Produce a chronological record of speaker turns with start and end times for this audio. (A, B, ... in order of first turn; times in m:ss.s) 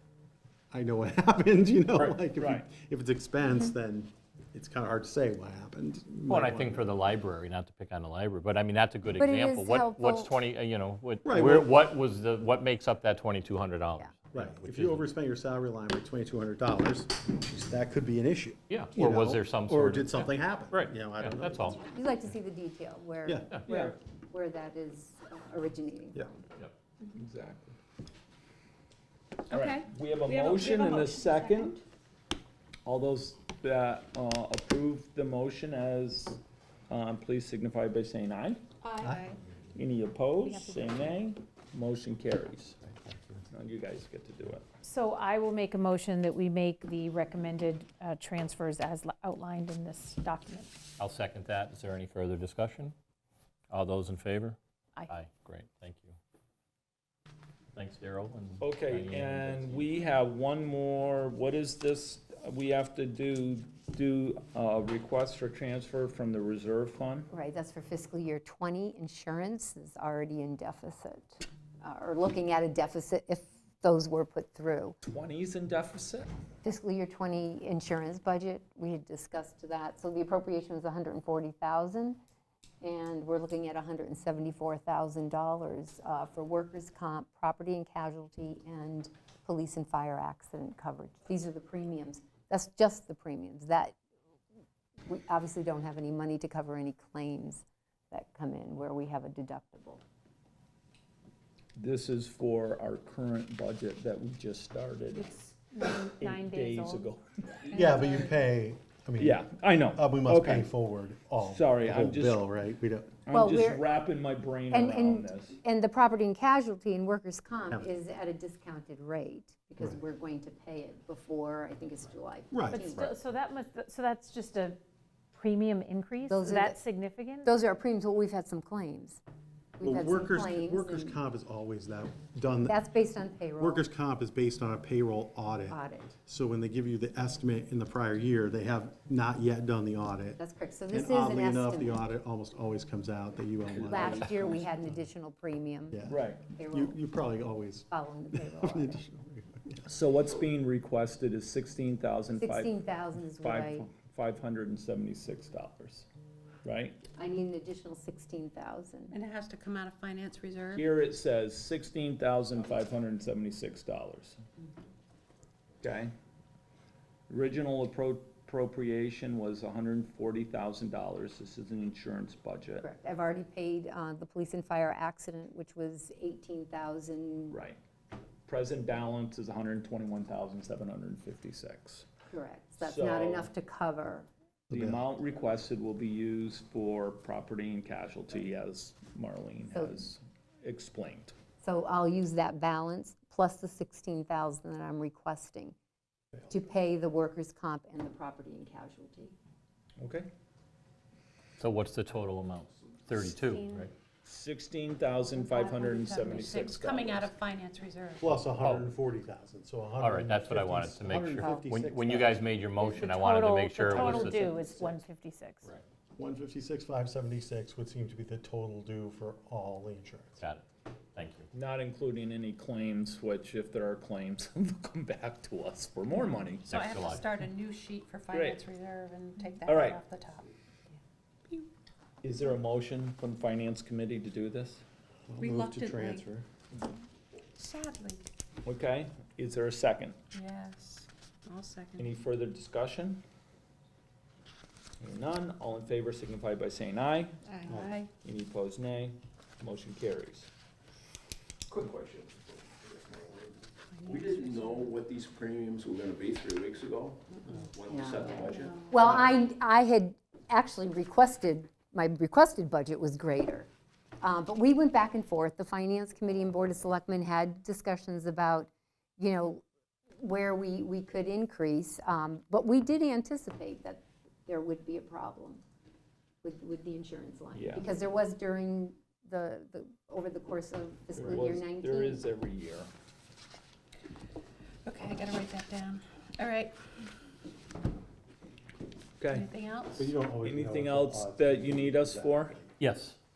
0:00.7-0:06.9 A
0:02.0-0:02.7 B
0:06.3-0:15.1 C
0:09.2-0:10.3 D
0:11.2-0:11.9 A
0:14.3-0:22.0 A
0:18.7-0:21.8 C
0:21.8-0:26.4 D
0:23.3-0:23.5 A
0:23.7-0:23.9 B
0:27.2-0:27.8 B
0:29.5-0:31.8 B
0:29.5-0:31.8 E
0:32.8-0:38.6 B
0:38.8-0:39.4 E
0:39.0-0:39.3 A
0:39.8-0:42.8 B
0:40.4-0:41.2 F
0:42.9-0:43.4 A
0:43.5-0:44.6 B
0:44.8-0:50.8 F
0:51.0-0:53.0 C
0:53.7-0:54.6 C
0:55.1-0:56.2 C
0:57.8-0:59.8 C
0:58.6-1:07.3 B
1:07.3-1:15.0 D
1:15.0-1:16.3 B
1:16.6-1:22.2 D
1:22.8-1:34.0 D
1:35.1-1:40.0 D
1:41.8-1:45.3 B
1:45.1-1:47.1 F
1:46.2-1:47.2 B
1:47.7-1:53.2 A
1:47.7-1:48.4 E
1:49.2-1:50.7 B
1:51.4-1:52.5 B
1:53.2-1:55.6 B
1:53.3-1:53.9 D
1:54.7-2:03.1 D
2:02.5-2:03.1 A
2:02.7-2:04.8 F
2:05.3-2:07.5 F
2:06.3-2:06.8 D
2:07.4-2:09.2 D
2:09.8-2:11.2 D
2:09.8-2:12.8 A
2:12.7-2:13.8 D
2:13.6-2:24.7 A
2:15.7-2:16.1 D
2:20.4-2:22.1 D
2:23.8-2:24.4 G
2:23.9-2:26.0 D
2:25.9-2:29.9 A
2:26.1-2:26.4 B
2:26.6-2:27.0 D
2:27.9-2:29.0 D
2:29.9-2:32.8 B
2:32.4-2:33.9 D
2:33.4-2:36.1 B
2:36.6-2:37.0 B
2:37.2-2:39.2 D
2:39.1-2:40.8 E
2:40.7-2:44.4 B
2:45.8-2:46.1 B
2:47.3-2:52.9 B
2:52.8-2:57.6 D
2:57.5-2:57.8 B
2:58.5-3:02.1 B
3:02.3-3:04.3 D
3:02.8-3:03.5 B
3:04.7-3:05.0 A
3:04.7-3:11.3 B
3:09.7-3:10.0 D
3:11.6-3:15.8 D
3:16.5-3:19.4 D
3:20.0-3:20.3 B
3:21.6-3:23.9 C
3:23.2-3:23.9 F
3:24.2-3:27.3 B
3:25.3-3:28.4 E
3:28.2-3:32.5 A
3:28.6-3:29.0 C
3:30.0-3:34.6 C
3:32.8-3:35.7 F
3:36.2-3:40.4 A
3:40.4-3:41.5 C
3:41.5-3:46.7 B
3:46.7-3:47.3 C
3:46.7-3:50.5 E
3:48.3-3:48.6 B
3:49.6-3:50.0 B
3:52.2-3:54.8 B
3:55.3-3:56.4 A
3:55.4-3:56.3 E
3:57.6-3:58.2 E
3:58.6-4:00.2 B
4:00.3-4:02.0 E
4:02.0-4:03.2 B
4:05.0-4:07.4 B
4:07.5-4:08.1 E
4:07.7-4:08.0 A
4:08.2-4:10.5 B
4:11.7-4:19.4 G
4:14.0-4:14.9 E
4:17.9-4:18.3 D
4:18.5-4:18.9 E
4:18.9-4:23.7 D
4:24.2-4:29.6 D
4:30.2-4:35.6 D
4:36.4-4:42.2 D
4:37.5-4:37.9 B
4:41.2-4:42.9 B
4:44.8-4:46.8 E
4:49.2-4:49.5 B
4:49.4-4:50.1 E
4:49.9-4:52.8 A
4:50.4-4:52.6 B
4:52.8-4:53.2 C